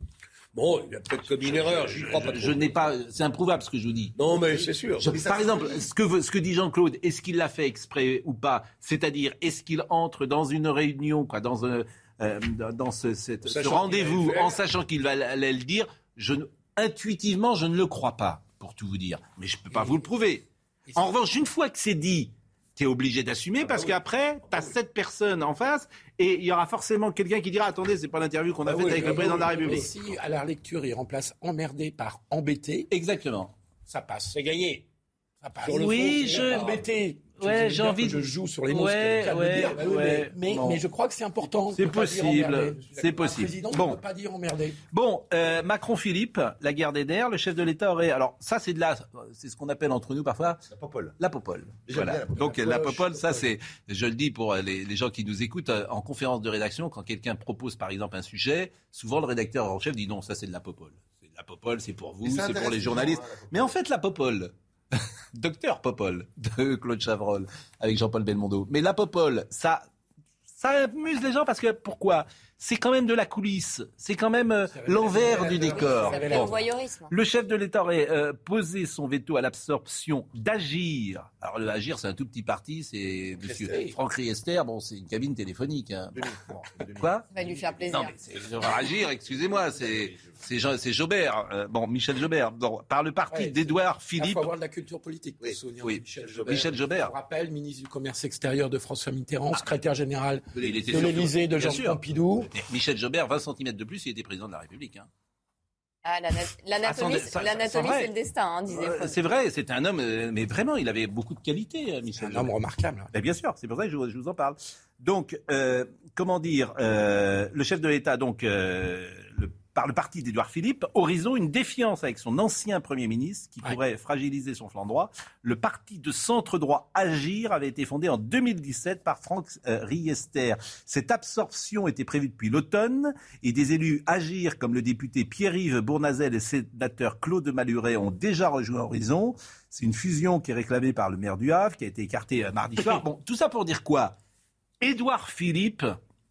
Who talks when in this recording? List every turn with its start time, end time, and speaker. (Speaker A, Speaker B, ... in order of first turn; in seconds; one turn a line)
Speaker A: 0.5-2.7
Speaker B: 1.4-4.2
Speaker A: 4.2-5.1
Speaker B: 5.0-30.1
Speaker C: 5.1-5.9
Speaker A: 13.4-14.6
Speaker D: 19.7-20.0
Speaker A: 23.6-24.0
Speaker A: 28.6-29.8
Speaker D: 28.9-32.9
Speaker B: 32.9-33.5
Speaker D: 33.9-34.4
Speaker A: 34.3-34.8
Speaker D: 35.4-44.8
Speaker A: 35.6-36.8
Speaker B: 35.7-36.8
Speaker B: 37.4-40.8
Speaker A: 39.7-40.1
Speaker B: 41.7-44.0
Speaker B: 44.9-50.6
Speaker C: 50.7-51.1
Speaker B: 51.2-64.5
Speaker C: 51.9-53.0
Speaker D: 52.4-53.4
Speaker C: 62.2-63.7
Speaker B: 65.3-69.8
Speaker B: 70.5-76.5
Speaker D: 74.7-76.5
Speaker C: 75.3-76.1
Speaker E: 75.4-77.1
Speaker B: 77.1-87.3
Speaker D: 83.4-83.9
Speaker C: 86.1-87.1
Speaker E: 87.3-88.1
Speaker B: 87.9-94.5
Speaker C: 89.7-90.2
Speaker D: 93.3-102.5
Speaker B: 95.8-97.1
Speaker C: 96.3-96.6
Speaker B: 100.5-102.0
Speaker B: 102.5-105.1
Speaker E: 106.0-109.2
Speaker B: 106.8-108.1
Speaker B: 108.7-112.5
Speaker D: 112.2-113.1
Speaker B: 113.1-144.1
Speaker D: 142.8-143.0
Speaker B: 144.8-145.9